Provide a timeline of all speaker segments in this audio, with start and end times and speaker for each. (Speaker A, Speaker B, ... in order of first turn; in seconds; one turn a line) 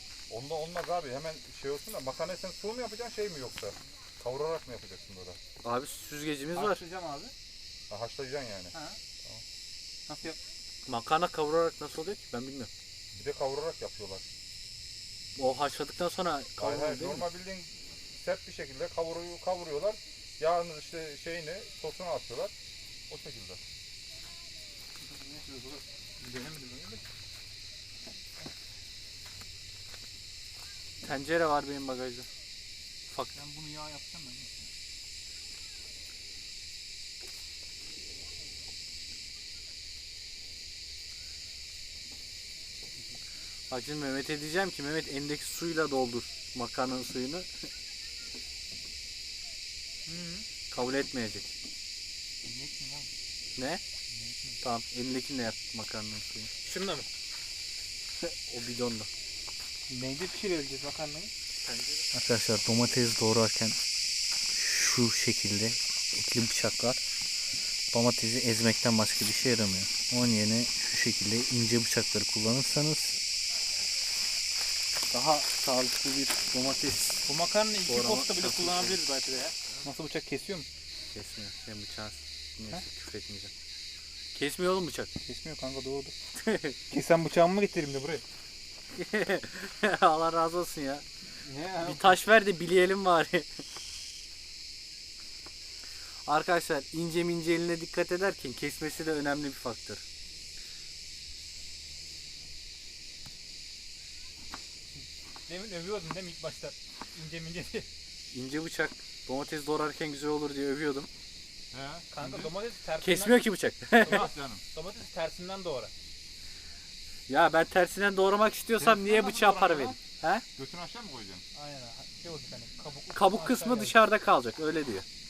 Speaker A: 0.3-5.4
Speaker B: 5.6-6.8
Speaker C: 6.5-7.3
Speaker A: 7.9-9.4
Speaker C: 10.1-10.4
Speaker B: 10.9-12.7
Speaker A: 13.1-14.3
Speaker B: 15.4-17.3
Speaker A: 16.6-22.5
Speaker A: 23.1-23.6
Speaker C: 25.0-27.0
Speaker B: 31.0-32.3
Speaker C: 33.3-34.7
Speaker B: 43.7-47.5
Speaker C: 50.1-50.5
Speaker B: 50.7-51.5
Speaker C: 52.5-53.1
Speaker B: 53.6-53.8
Speaker C: 54.1-54.6
Speaker B: 54.6-56.5
Speaker C: 56.6-57.1
Speaker B: 58.2-59.1
Speaker C: 59.9-62.1
Speaker B: 62.1-63.8
Speaker B: 64.5-67.0
Speaker B: 67.9-73.2
Speaker B: 75.1-77.2
Speaker C: 77.3-80.7
Speaker B: 77.9-79.0
Speaker B: 81.1-83.5
Speaker B: 84.3-85.1
Speaker C: 85.2-86.1
Speaker B: 86.3-86.8
Speaker C: 86.9-88.2
Speaker B: 89.0-91.1
Speaker C: 91.5-92.2
Speaker B: 91.8-93.5
Speaker B: 96.3-100.0
Speaker C: 105.5-107.9
Speaker B: 108.3-111.1
Speaker A: 111.7-112.5
Speaker C: 112.1-115.9
Speaker B: 113.0-114.3
Speaker A: 114.0-114.6
Speaker B: 117.3-120.5
Speaker C: 118.8-120.0
Speaker A: 120.6-121.4
Speaker C: 121.5-124.1
Speaker B: 123.1-125.1